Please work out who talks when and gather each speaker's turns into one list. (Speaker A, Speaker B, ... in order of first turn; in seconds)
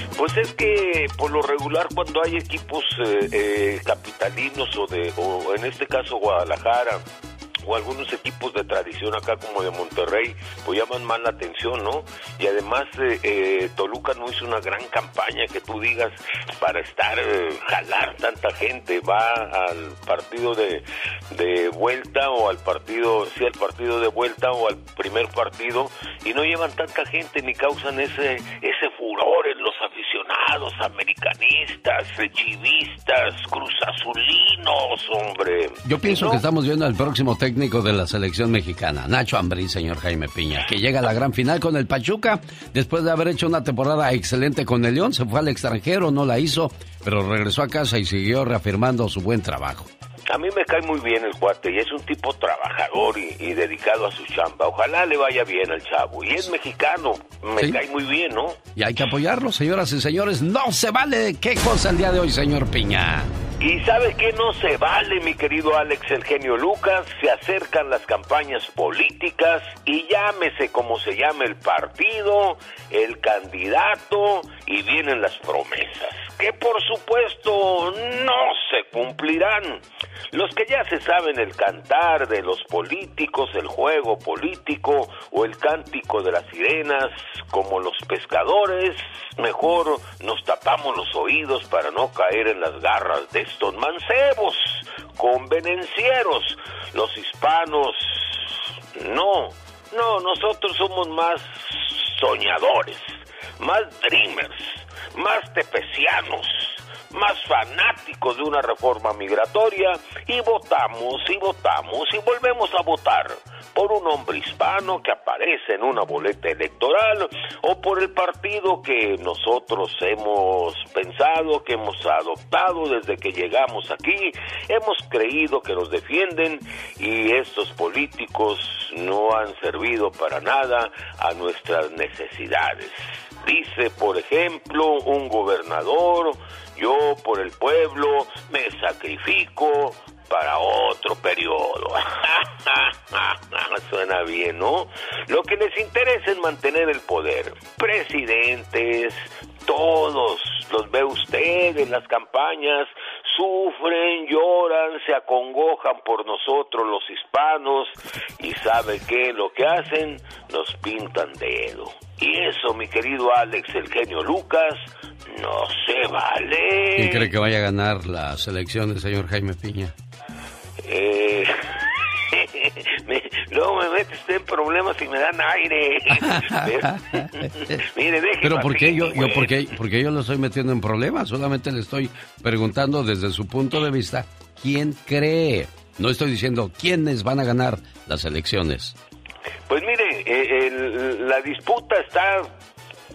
Speaker A: 0.2-7.0, 7.7-36.4, 50.3-58.6, 63.6-167.3, 170.8-179.7, 189.7-192.5
Speaker B: 35.9-49.9, 58.8-63.3, 166.9-169.9, 176.1-177.8, 178.4-188.9